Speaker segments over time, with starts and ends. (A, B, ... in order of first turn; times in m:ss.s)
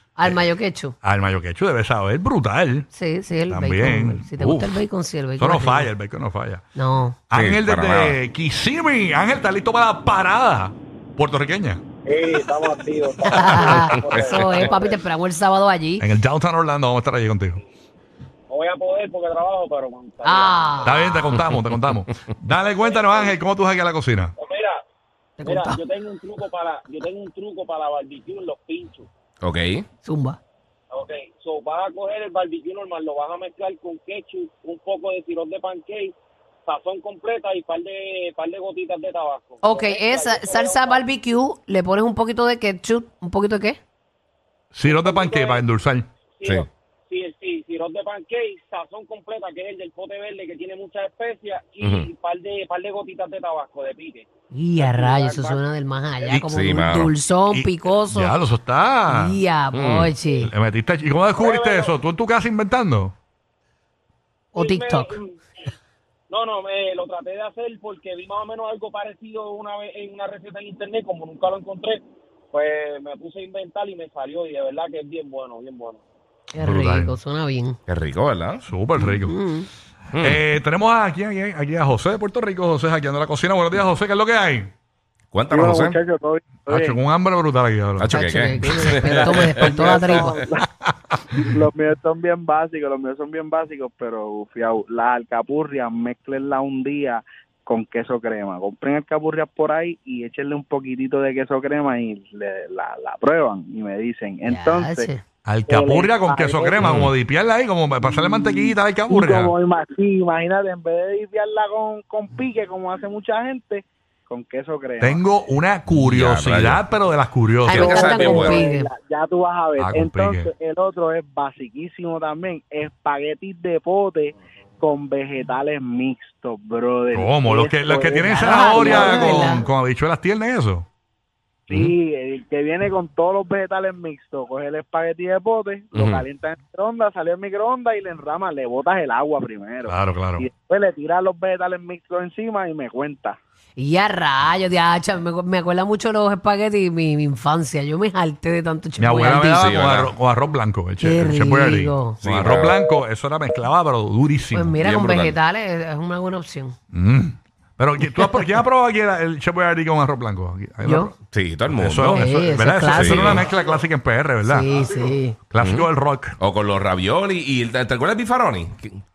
0:00.2-0:01.0 A
0:01.0-0:02.9 B
0:02.9-0:05.9 A
0:03.5-0:04.8 B
0:05.4-0:06.6 B
0:06.8-0:07.2 A
0:07.3-0:11.8 B
0:07.3-0:08.2 C
0:12.0-0:15.0 D
0:13.3-0:16.1 A
0:14.3-0:14.7 C
0:16.0-0:17.6 B
0:18.5-0:21.0 D
0:20.2-0:21.4 A
0:20.8-0:24.3 B
0:22.8-0:23.4 D
0:24.4-0:24.8 D
0:25.4-0:25.8 A
0:25.4-0:29.1 D
0:29.4-0:29.9 C
0:30.0-0:30.4 A
0:30.9-0:36.1 D
0:36.7-0:41.0 D
0:39.6-0:43.8 A
0:44.8-0:46.1 B
0:44.8-0:45.7 D
0:46.4-0:54.3 D
0:51.8-0:52.1 C
0:54.5-0:58.4 A
0:54.8-0:55.6 D
0:56.4-0:57.1 C
0:57.5-0:59.4 B
0:59.1-1:00.5 A
0:59.7-1:00.1 C
1:00.4-1:03.2 B
1:01.3-1:02.0 D
1:04.6-1:05.2 A
1:04.6-1:05.4 D
1:06.3-1:16.0 D
1:16.6-1:17.8 A
1:16.6-1:17.2 B
1:17.9-1:18.6 C
1:18.6-1:19.3 B
1:19.0-1:19.7 A
1:20.1-1:20.4 C
1:20.2-1:24.7 B
1:25.3-1:26.0 C
1:25.5-1:27.0 E
1:26.7-1:28.2 B
1:28.0-1:30.4 C
1:28.1-1:30.4 A
1:29.1-1:30.6 E
1:31.5-1:45.1 E
1:44.4-1:45.2 A
1:45.5-1:49.5 B
1:45.7-1:47.0 E
1:46.8-1:47.1 C
1:48.0-1:55.2 E
1:55.0-1:57.9 B
1:55.9-1:56.8 C
1:57.7-1:58.9 A
1:57.7-1:58.7 C
1:57.8-2:09.3 E
1:59.8-2:00.5 B
2:07.1-2:10.9 B
2:08.3-2:09.6 A
2:11.7-2:12.0 C
2:11.7-2:23.4 E
2:15.9-2:16.2 C
2:19.9-2:20.5 B
2:23.8-2:29.7 A
2:29.0-2:34.8 B
2:29.6-2:30.1 C
2:31.0-2:32.2 A
2:32.2-2:32.8 C
2:34.5-2:36.8 A
2:34.8-2:35.4 C
2:36.9-2:41.2 B
2:40.8-2:41.1 A
2:41.3-2:42.2 C
2:41.7-2:44.7 B
2:42.1-2:43.3 A
2:42.9-2:43.5 C
2:44.4-2:45.4 A
2:45.5-2:46.4 B
2:45.6-2:45.9 C
2:46.4-2:49.0 C